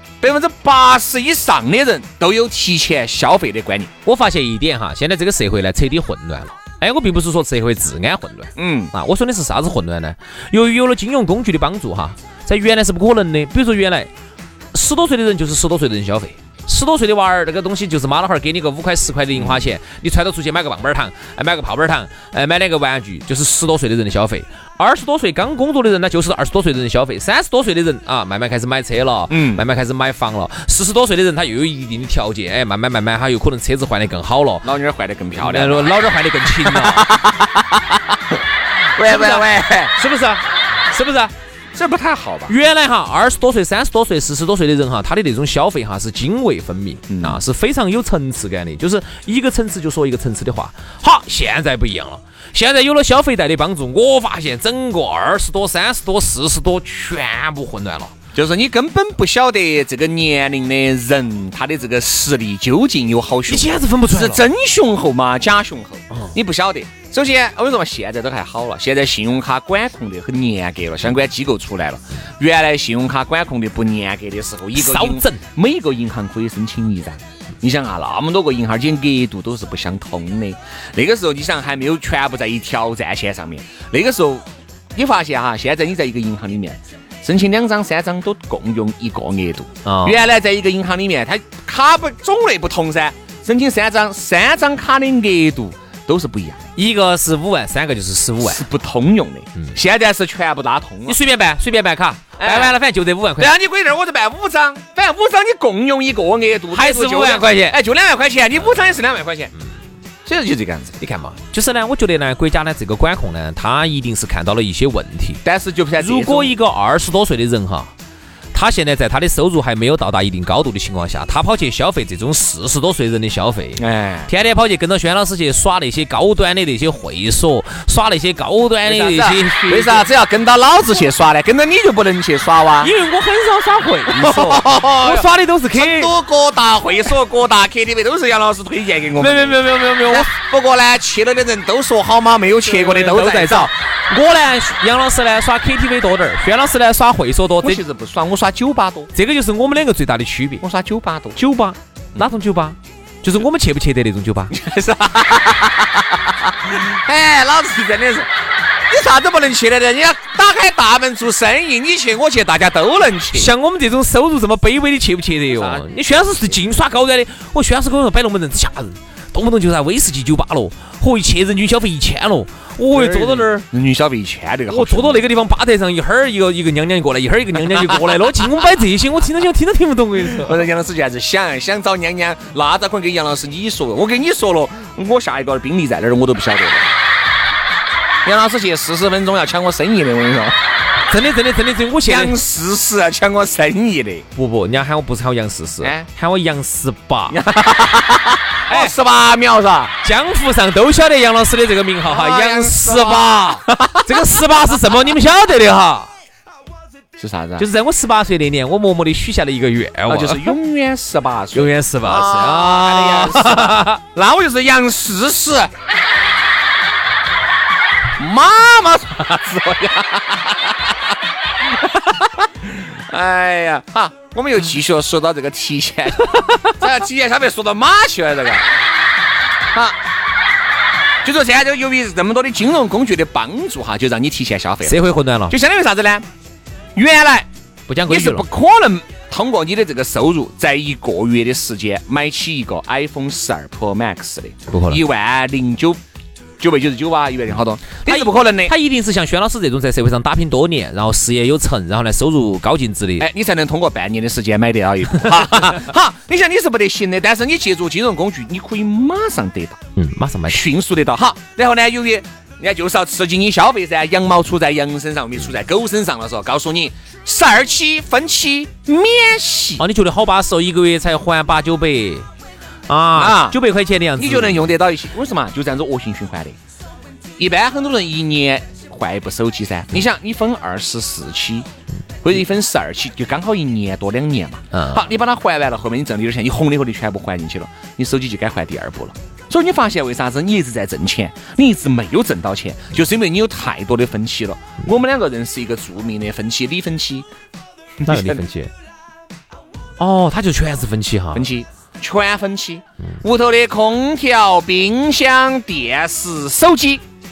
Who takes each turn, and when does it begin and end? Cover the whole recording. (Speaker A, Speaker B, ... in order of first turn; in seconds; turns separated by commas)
Speaker A: 0.2-3.9, Speaker B: 4.0-14.1, Speaker A: 8.6-8.9, Speaker B: 14.7-34.7, Speaker A: 19.4-19.7, Speaker A: 29.3-29.6, Speaker A: 34.6-38.4, Speaker B: 35.4-37.1, Speaker A: 39.0-39.9, Speaker B: 39.0-41.3, Speaker A: 41.8-42.5, Speaker B: 42.5-58.1, Speaker A: 47.1-47.4, Speaker A: 58.3-96.7, Speaker B: 63.5-64.4, Speaker B: 66.1-66.4, Speaker B: 74.8-75.4, Speaker B: 89.8-90.2, Speaker B: 96.8-98.7, Speaker A: 98.4-101.2, Speaker B: 101.1-103.5, Speaker A: 102.4-102.8, Speaker A: 103.4-109.5, Speaker B: 106.7-107.8, Speaker A: 110.2-111.0, Speaker B: 111.0-115.4, Speaker A: 115.4-116.5, Speaker B: 116.0-117.9, Speaker B: 118.5-130.1, Speaker A: 123.8-124.3, Speaker A: 128.8-132.9, Speaker B: 132.8-136.1, Speaker A: 134.1-143.7, Speaker B: 139.2-140.3, Speaker B: 142.6-147.8, Speaker A: 147.6-149.1, Speaker B: 149.1-150.6, Speaker A: 150.6-151.4, Speaker B: 151.4-154.6, Speaker A: 154.5-158.3, Speaker A: 158.9-163.5, Speaker B: 163.3-173.7, Speaker A: 165.5-165.9, Speaker A: 172.9-175.2, Speaker B: 174.7-180.6, Speaker A: 180.3-186.9, Speaker A: 188.2-190.6, Speaker B: 191.1-192.4, Speaker A: 192.1-194.3, Speaker B: 194.3-197.4, Speaker A: 195.8-196.1, Speaker A: 197.3-199.9, Speaker B: 198.7-198.9, Speaker B: 200.0-206.1, Speaker A: 202.1-204.2, Speaker A: 207.2-207.7, Speaker B: 207.6-210.6, Speaker A: 210.1-215.7, Speaker B: 211.6-214.0, Speaker A: 218.2-228.7, Speaker B: 226.3-226.8, Speaker A: 229.7-230.0, Speaker A: 231.2-236.3, Speaker B: 234.8-235.6, Speaker A: 237.0-237.5, Speaker B: 237.9-238.5, Speaker A: 238.1-246.0, Speaker B: 244.7-245.0, Speaker A: 246.6-248.7, Speaker B: 248.1-253.3, Speaker A: 253.2-259.8, Speaker B: 260.0-260.6, Speaker A: 260.5-269.8, Speaker B: 269.8-272.3, Speaker B: 272.9-274.7, Speaker A: 273.1-273.6, Speaker A: 274.2-276.6, Speaker A: 277.4-281.7, Speaker A: 282.2-297.3, Speaker B: 284.7-285.1, Speaker A: 298.0-298.4, Speaker B: 298.1-298.7, Speaker B: 300.0-301.5, Speaker A: 301.3-307.0